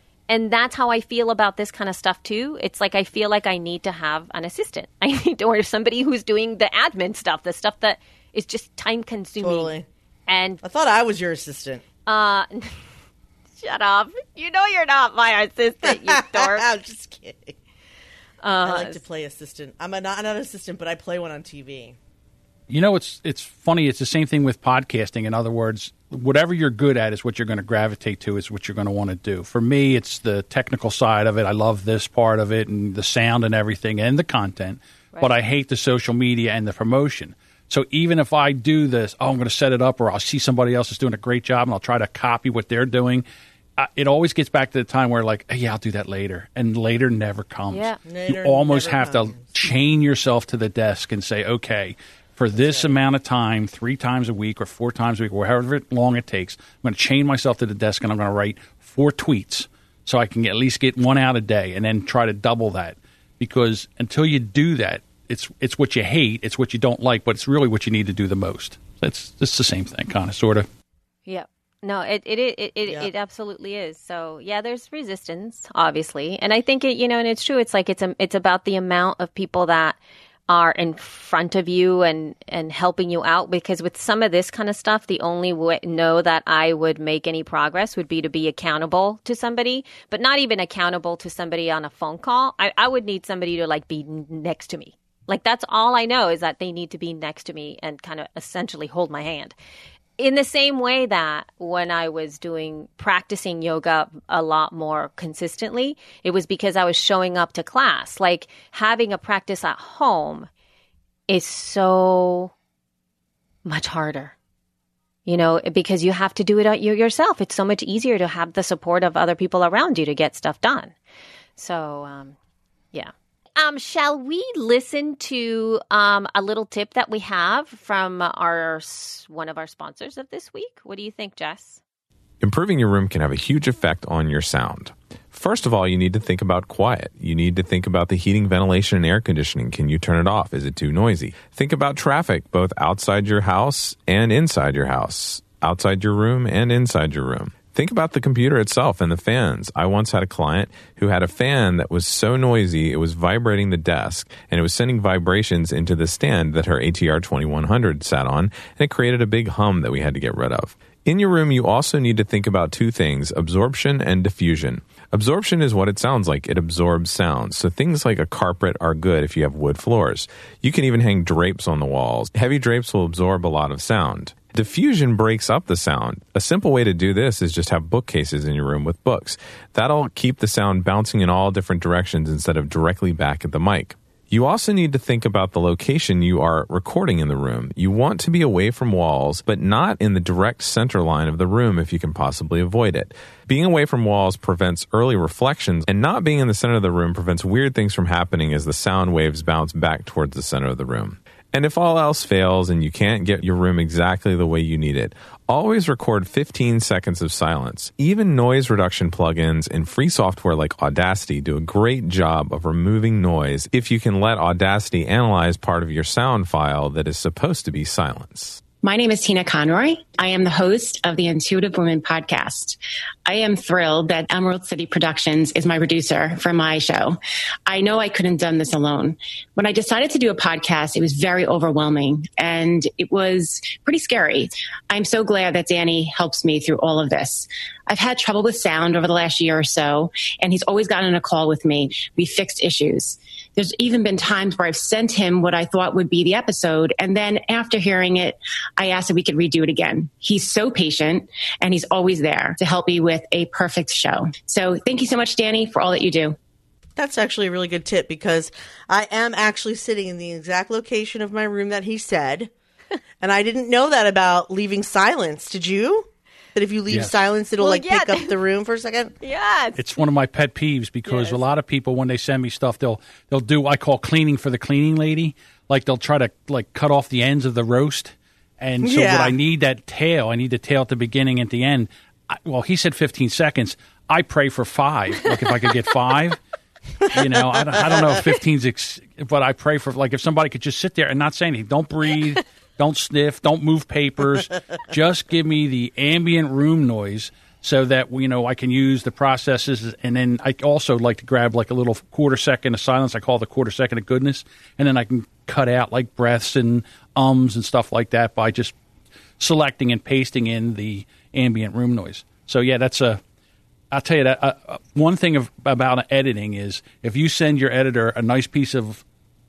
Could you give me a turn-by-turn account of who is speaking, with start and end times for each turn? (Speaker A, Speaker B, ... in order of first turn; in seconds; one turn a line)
Speaker A: 0.3-9.7
Speaker B: 9.4-9.9
Speaker A: 10.3-10.6
Speaker B: 10.6-11.8
Speaker A: 12.1-12.8
Speaker A: 13.6-16.7
Speaker B: 15.8-17.6
Speaker A: 18.4-19.0
Speaker B: 18.6-22.0
Speaker C: 22.7-43.2
Speaker C: 43.8-70.7
Speaker A: 47.7-48.0
Speaker B: 48.0-49.7
Speaker B: 52.5-52.9
Speaker A: 71.3-80.0
Speaker A: 80.5-99.5
Speaker A: 100.2-110.5
Speaker A: 111.3-112.5
Speaker A: 113.6-114.3
Speaker A: 115.2-120.9
Speaker A: 121.6-122.4
Speaker A: 122.9-131.8
Speaker D: 132.4-218.6
Speaker E: 218.8-256.4
Speaker B: 257.0-262.5
Speaker B: 263.2-269.1
Speaker A: 267.6-268.4
Speaker A: 269.2-269.9
Speaker C: 269.8-286.4
Speaker B: 278.8-279.4
Speaker B: 287.0-288.1
Speaker C: 287.1-308.7
Speaker C: 309.4-313.2
Speaker C: 313.9-319.0